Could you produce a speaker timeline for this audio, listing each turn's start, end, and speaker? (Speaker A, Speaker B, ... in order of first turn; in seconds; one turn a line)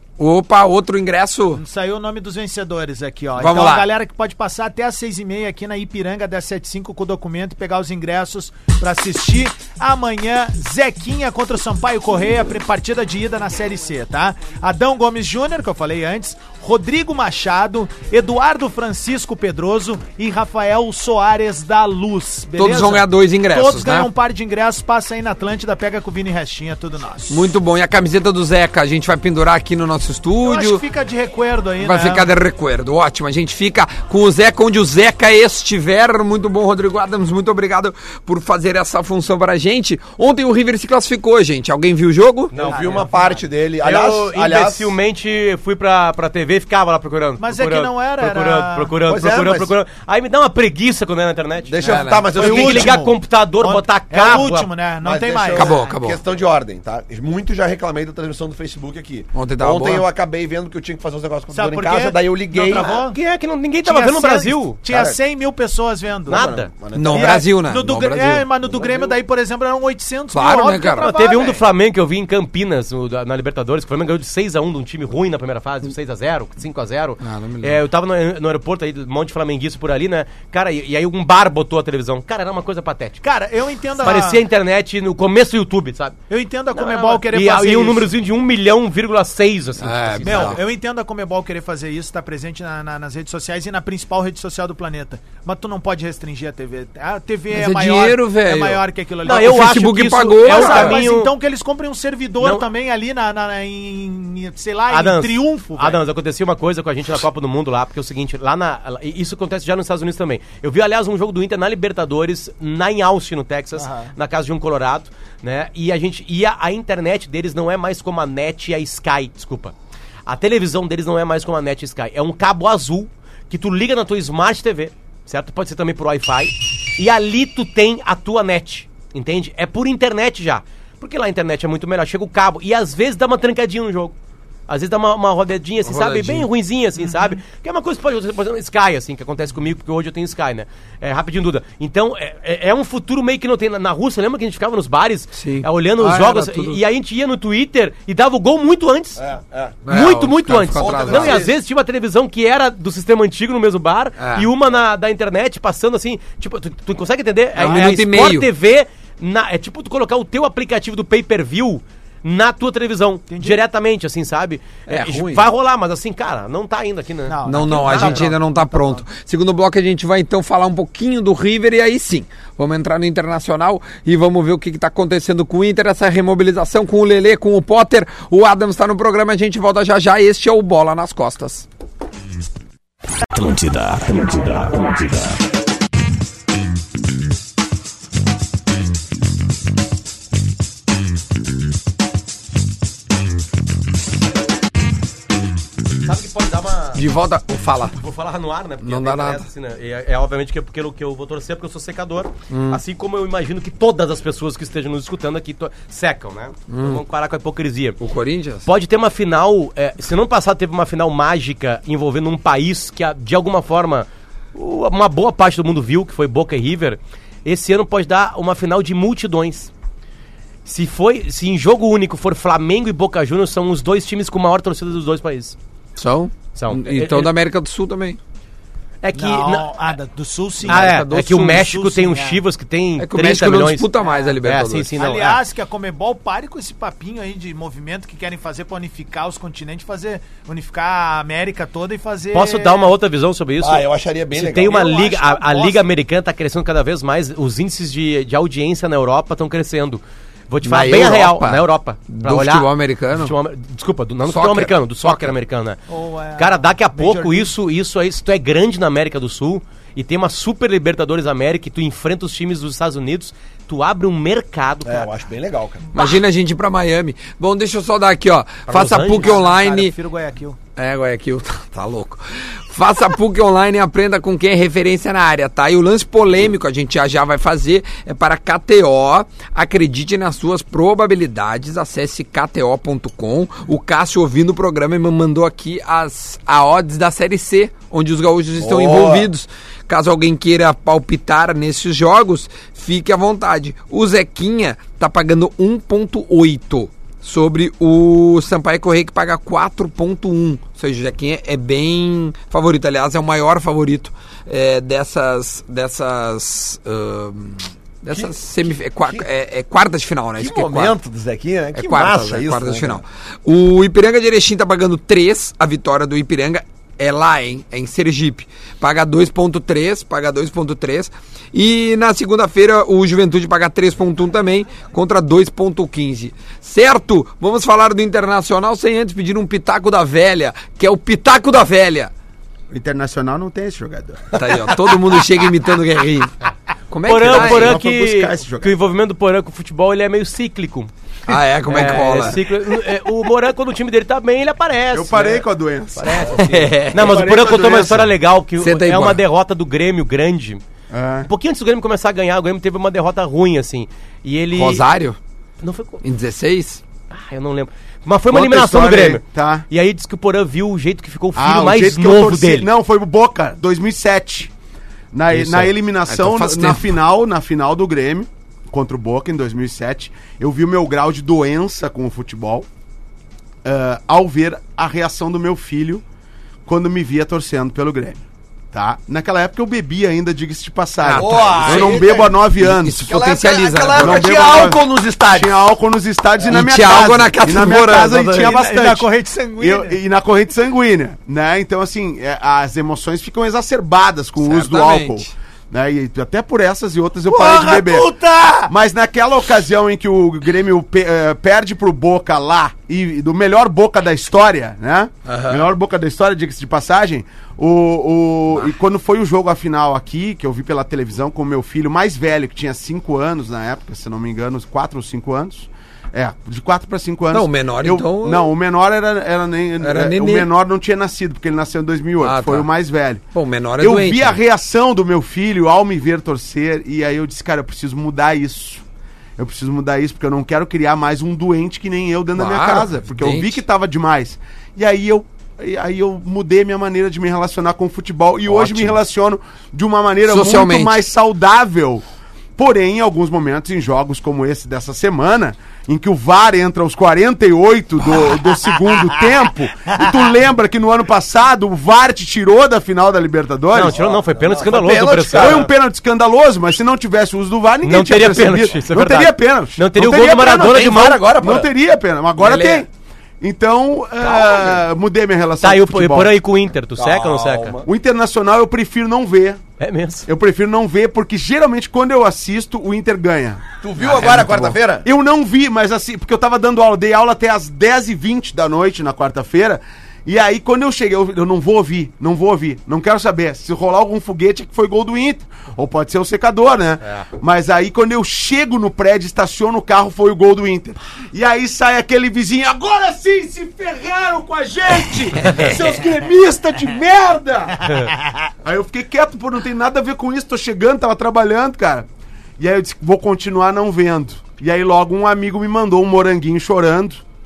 Speaker A: 0.2-1.6
Speaker B: 1.6-27.5
Speaker A: 3.4-3.9
Speaker A: 22.6-24.1
Speaker A: 27.3-30.8
Speaker B: 30.4-32.3
Speaker A: 31.8-42.5
Speaker C: 42.5-43.1
Speaker D: 42.5-45.0
Speaker B: 42.7-43.4
Speaker C: 43.8-51.8
Speaker B: 47.4-48.9
Speaker D: 49.1-49.7
Speaker D: 51.7-53.1
Speaker A: 51.8-52.3
Speaker B: 52.2-55.8
Speaker C: 52.3-54.7
Speaker D: 55.0-63.0
Speaker A: 55.5-56.2
Speaker A: 59.3-60.1
Speaker B: 61.5-63.2
Speaker C: 62.7-64.8
Speaker B: 63.8-66.5
Speaker D: 64.9-65.2
Speaker C: 66.3-66.7
Speaker D: 66.3-67.4
Speaker A: 66.9-68.5
Speaker B: 67.1-71.7
Speaker D: 68.6-69.2
Speaker A: 70.3-71.1
Speaker C: 71.0-83.2
Speaker A: 77.2-77.8
Speaker B: 83.2-84.4
Speaker C: 84.0-86.2
Speaker B: 86.3-88.1
Speaker C: 86.7-90.6
Speaker A: 89.8-90.6
Speaker B: 90.2-99.9
Speaker A: 97.5-101.0
Speaker C: 99.2-101.3
Speaker B: 100.4-106.0
Speaker C: 102.4-102.7
Speaker C: 104.9-119.7
Speaker B: 113.8-114.1
Speaker C: 120.3-134.2
Speaker C: 134.7-149.2
Speaker A: 135.8-136.5
Speaker A: 145.3-146.8
Speaker D: 149.2-149.9
Speaker A: 149.9-151.4
Speaker C: 149.9-168.2
Speaker D: 150.8-151.6
Speaker A: 154.2-154.5
Speaker A: 157.6-158.5
Speaker B: 163.3-163.6
Speaker A: 164.9-165.5
Speaker B: 167.3-169.0
Speaker A: 167.5-181.7
Speaker E: 183.3-185.4
Speaker C: 196.0-197.0
Speaker A: 196.9-198.0
Speaker C: 198.0-208.0
Speaker A: 198.8-199.5
Speaker A: 202.5-202.8
Speaker A: 206.7-207.0
Speaker A: 208.0-208.7
Speaker C: 208.7-219.7
Speaker C: 220.7-225.6
Speaker A: 226.0-228.2
Speaker C: 226.6-227.3
Speaker C: 229.0-229.9
Speaker B: 229.1-232.4
Speaker A: 230.6-231.7
Speaker C: 230.7-233.9
Speaker A: 233.0-234.9
Speaker B: 234.0-234.4
Speaker C: 234.4-235.4
Speaker B: 235.0-242.8
Speaker C: 242.3-255.8
Speaker D: 243.6-244.9
Speaker B: 244.7-245.9
Speaker A: 250.6-253.3
Speaker A: 254.3-255.3
Speaker B: 255.9-257.5
Speaker C: 256.4-265.1
Speaker D: 264.9-265.9
Speaker A: 265.9-270.0
Speaker C: 268.7-269.4
Speaker B: 269.2-270.6
Speaker A: 270.8-311.0
Speaker D: 288.6-289.3
Speaker D: 308.1-308.4
Speaker D: 310.4-313.0
Speaker A: 311.7-332.1
Speaker F: 332.7-334.5
Speaker A: 334.3-336.3
Speaker A: 336.9-337.8
Speaker C: 337.1-340.9
Speaker F: 337.2-338.8
Speaker A: 341.3-342.4
Speaker C: 341.7-345.5
Speaker F: 344.9-346.4
Speaker C: 346.0-350.6
Speaker D: 346.1-346.8
Speaker A: 346.4-347.3
Speaker F: 346.9-348.1
Speaker A: 348.6-349.2
Speaker F: 350.9-351.3
Speaker C: 351.3-354.9
Speaker A: 354.5-355.2
Speaker C: 355.6-356.0
Speaker A: 356.0-356.8
Speaker C: 357.1-362.7
Speaker F: 358.3-359.6
Speaker F: 361.4-364.5
Speaker F: 365.1-372.7
Speaker A: 365.3-367.0
Speaker F: 373.6-376.0
Speaker F: 376.7-378.2
Speaker F: 378.7-383.1
Speaker A: 381.0-382.0
Speaker D: 381.2-382.4
Speaker A: 382.6-384.4
Speaker D: 383.0-385.6
Speaker F: 384.0-398.1
Speaker A: 386.5-388.5
Speaker B: 388.4-390.0
Speaker A: 394.4-395.3
Speaker B: 397.3-398.7
Speaker F: 398.7-423.2
Speaker A: 405.3-405.7
Speaker A: 417.3-418.5
Speaker A: 419.8-420.5
Speaker A: 422.2-422.7
Speaker A: 423.3-424.4
Speaker F: 423.8-428.8
Speaker F: 429.4-442.0
Speaker A: 432.4-433.6
Speaker A: 438.5-439.0
Speaker A: 440.3-441.0
Speaker F: 442.6-454.0
Speaker C: 453.7-455.7
Speaker D: 453.8-455.7
Speaker F: 455.3-462.9
Speaker C: 457.8-461.2
Speaker D: 460.5-461.7
Speaker A: 462.4-462.9
Speaker F: 463.4-466.4
Speaker D: 464.2-464.8
Speaker C: 465.6-467.8
Speaker D: 467.0-467.9
Speaker F: 467.9-469.6
Speaker C: 469.8-470.3
Speaker F: 470.3-497.9
Speaker D: 473.8-475.1
Speaker A: 474.0-474.7
Speaker F: 498.6-502.1
Speaker F: 502.6-507.2